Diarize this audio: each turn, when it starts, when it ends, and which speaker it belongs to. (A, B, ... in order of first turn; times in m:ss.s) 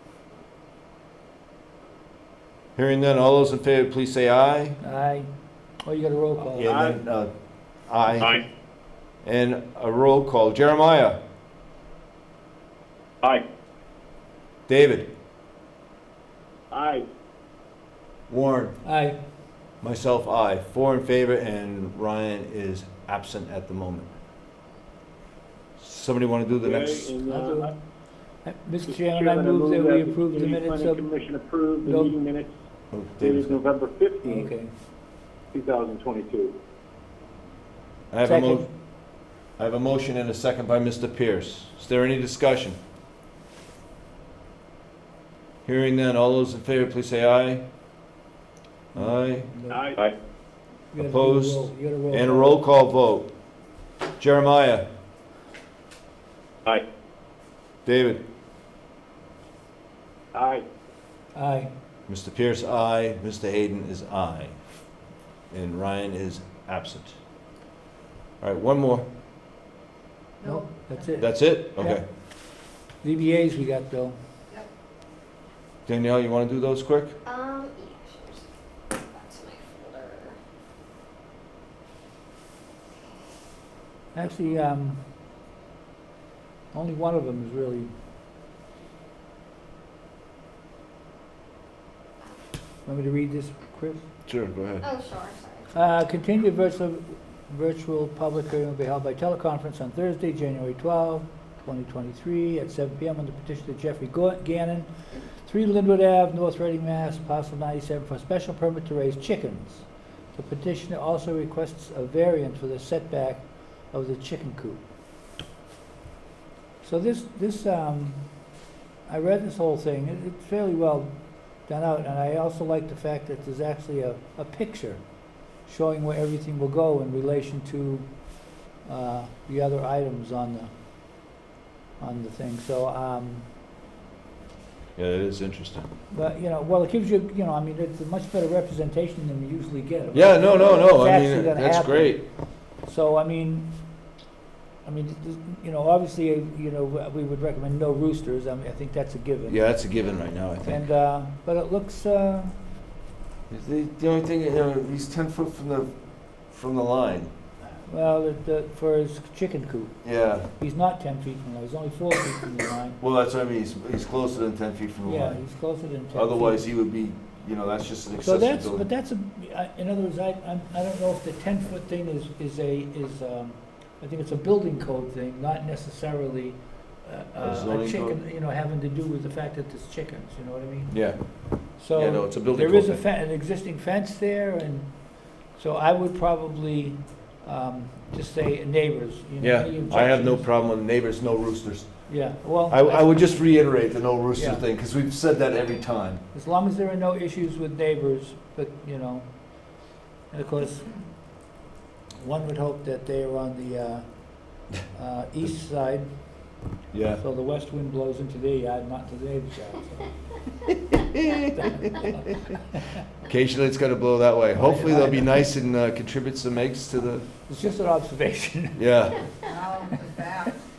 0:02.8-0:04.8 A
0:04.8-0:05.3 B
0:05.8-0:06.7 B
0:06.4-0:07.3 A
0:07.9-0:08.3 A
0:09.2-0:11.2 A
0:14.7-0:15.1 A
0:16.7-0:17.0 C
0:18.3-0:18.8 A
0:18.8-0:19.2 B
0:19.8-0:24.1 A
0:25.8-0:27.1 A
0:26.6-0:27.7 C
0:27.3-0:27.7 B
0:28.4-0:31.1 B
0:28.8-0:32.5 C
0:31.8-0:32.1 B
0:32.9-0:33.6 A
0:33.2-0:34.5 C
0:34.3-0:34.7 B
0:35.5-0:36.5 C
0:38.1-0:38.6 A
0:38.2-0:38.7 B
0:39.6-0:42.8 A
0:45.6-0:47.6 A
0:48.9-0:49.5 A
0:48.9-0:49.8 B
0:49.7-0:50.0 C
0:50.9-0:52.6 B
0:51.1-0:53.3 A
0:54.2-0:54.9 A
0:57.8-0:58.2 A
1:00.3-1:00.6 C
1:01.3-1:01.7 B
1:02.1-1:04.6 A
1:05.5-1:07.2 A
1:08.4-1:09.0 A
1:10.4-1:12.0 B
1:11.2-1:12.0 A
1:13.0-1:14.2 B
1:15.8-1:17.1 A
1:17.2-1:20.4 D
1:24.1-1:25.0 B
1:26.7-1:27.9 B
1:32.8-1:34.0 B
1:34.3-1:34.8 A
1:34.8-1:35.7 D
1:35.7-1:54.8 B
1:56.8-1:58.2 B
1:59.1-2:01.1 B
2:01.6-2:05.0 B
2:05.6-2:08.1 B
2:08.8-2:10.7 B
2:12.0-2:13.5 B
2:15.0-2:15.9 A
2:16.1-2:23.7 B
2:20.1-2:22.2 A
2:24.8-2:29.6 B
2:29.5-2:30.9 A
2:30.7-2:32.6 B
2:33.5-2:35.9 A
2:36.5-2:37.3 A
2:37.8-2:40.0 B
2:40.0-2:40.5 A
2:40.5-2:43.0 B
2:43.0-2:45.4 A
2:45.1-2:46.5 B
2:46.1-2:48.8 A
2:48.2-3:10.4 B
2:57.4-2:58.2 A
3:00.9-3:03.0 A
3:09.4-3:16.2 A
3:12.1-3:13.5 B
3:14.3-3:14.6 B
3:16.3-3:19.3 B
3:20.3-3:20.9 B
3:22.2-3:26.1 B
3:26.9-3:27.2 A
3:27.2-3:30.3 B
3:31.1-3:32.1 A
3:31.5-3:32.4 B
3:33.2-3:37.3 A
3:34.6-3:35.3 B
3:37.5-3:38.8 B
3:38.8-3:39.3 A